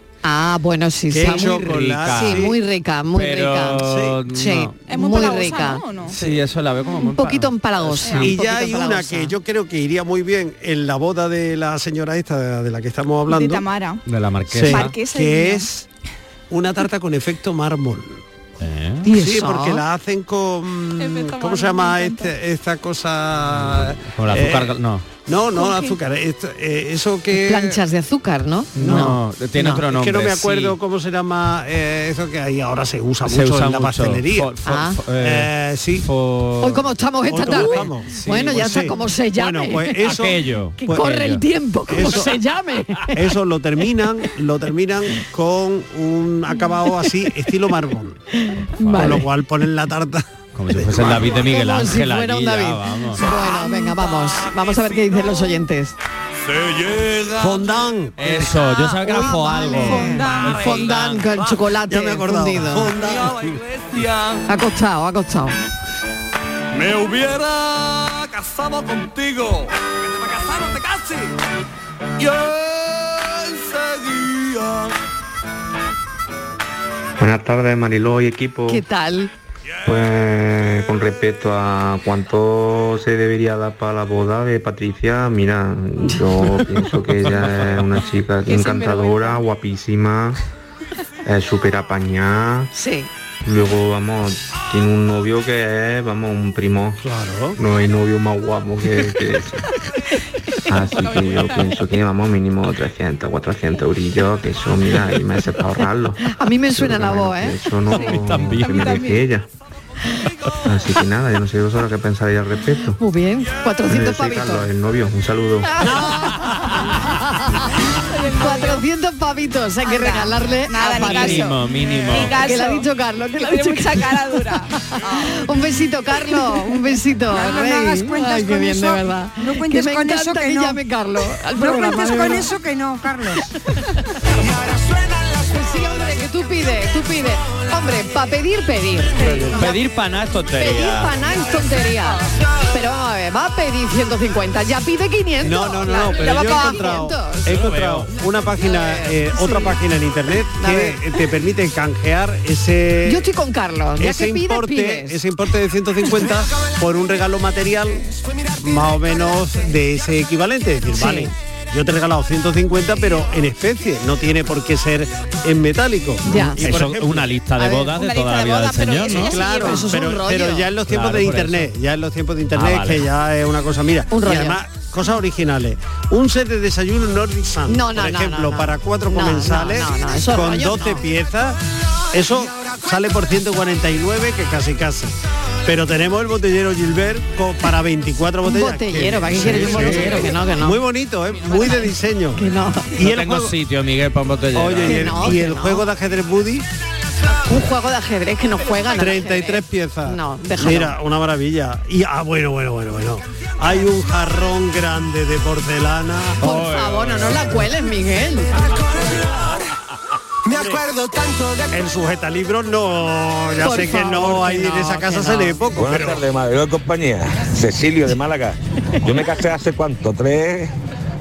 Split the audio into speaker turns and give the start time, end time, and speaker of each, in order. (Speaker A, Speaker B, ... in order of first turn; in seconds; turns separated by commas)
Speaker A: 0.2-1.5, Speaker B: 1.1-2.6, Speaker C: 1.2-2.5, Speaker A: 2.1-5.8, Speaker C: 3.1-4.7, Speaker B: 3.8-4.2, Speaker D: 4.9-6.2, Speaker C: 6.1-8.3, Speaker A: 7.1-9.3, Speaker D: 8.0-8.3, Speaker B: 8.1-13.7, Speaker D: 13.3-14.0, Speaker C: 14.1-14.9, Speaker B: 14.5-15.8, Speaker D: 14.6-15.7, Speaker B: 16.5-18.2, Speaker C: 18.6-19.1, Speaker A: 19.0-19.8, Speaker B: 19.1-24.7, Speaker D: 21.0-22.3, Speaker C: 23.5-25.0, Speaker B: 25.2-27.8, Speaker D: 25.5-26.0, Speaker A: 27.3-29.8, Speaker B: 28.8-29.1, Speaker C: 28.8-30.8, Speaker B: 29.9-34.5, Speaker C: 33.2-36.8, Speaker A: 34.6-35.0, Speaker B: 35.2-36.0, Speaker A: 36.6-40.1, Speaker B: 37.3-41.1, Speaker C: 37.4-38.6, Speaker C: 40.0-41.4, Speaker A: 40.8-43.2, Speaker B: 41.9-42.3, Speaker B: 43.1-48.2, Speaker A: 48.3-49.3, Speaker B: 48.8-51.4, Speaker C: 48.9-49.2, Speaker C: 50.5-53.2, Speaker A: 51.3-56.0, Speaker E: 56.6-57.4, Speaker B: 57.4-58.5, Speaker C: 58.2-60.4, Speaker A: 59.0-62.9, Speaker B: 61.9-63.5, Speaker A: 64.5-65.6, Speaker E: 66.8-69.6, Speaker E: 70.2-71.0, Speaker F: 77.2-78.8, Speaker A: 78.7-79.3, Speaker F: 79.8-90.4, Speaker D: 88.5-89.4, Speaker F: 91.2-92.7, Speaker A: 92.7-93.1, Speaker F: 93.4-97.0, Speaker B: 97.0-97.6, Speaker F: 97.6-99.7, Speaker F: 100.7-109.5, Speaker D: 100.8-101.8, Speaker A: 106.2-107.6, Speaker C: 107.9-109.0, Speaker D: 107.9-109.3, Speaker F: 110.6-113.0, Speaker A: 113.0-114.7, Speaker F: 113.9-115.8, Speaker A: 115.7-117.7, Speaker D: 118.0-118.8, Speaker A: 118.3-121.5, Speaker D: 119.8-124.7, Speaker C: 120.9-122.5, Speaker A: 122.4-124.3, Speaker A: 124.9-132.5, Speaker G: 127.3-130.8, Speaker G: 131.5-133.4, Speaker A: 135.5-139.6, Speaker B: 139.2-139.7, Speaker C: 139.5-141.2, Speaker A: 140.6-147.5, Speaker B: 145.4-153.2, Speaker D: 146.1-146.8, Speaker C: 147.4-148.1, Speaker A: 148.6-149.8, Speaker A: 150.6-151.0, Speaker A: 153.1-155.2, Speaker B: 154.0-167.3, Speaker A: 160.9-161.3, Speaker A: 166.2-166.6, Speaker C: 166.6-169.5, Speaker D: 167.6-169.9, Speaker B: 169.1-181.6, Speaker A: 169.6-170.7, Speaker C: 170.9-171.7, Speaker C: 172.5-173.1, Speaker A: 174.1-174.6, Speaker A: 177.7-181.0, Speaker B: 182.1-192.4, Speaker A: 188.4-190.8, Speaker A: 192.3-192.9, Speaker B: 192.9-193.5, Speaker C: 193.0-195.4, Speaker B: 194.5-196.7, Speaker A: 194.8-195.8, Speaker A: 197.4-200.9, Speaker B: 198.9-206.4, Speaker A: 206.4-208.6, Speaker C: 206.4-207.6, Speaker B: 210.5-210.9, Speaker B: 211.7-216.2, Speaker A: 213.6-215.6, Speaker H: 215.8-220.7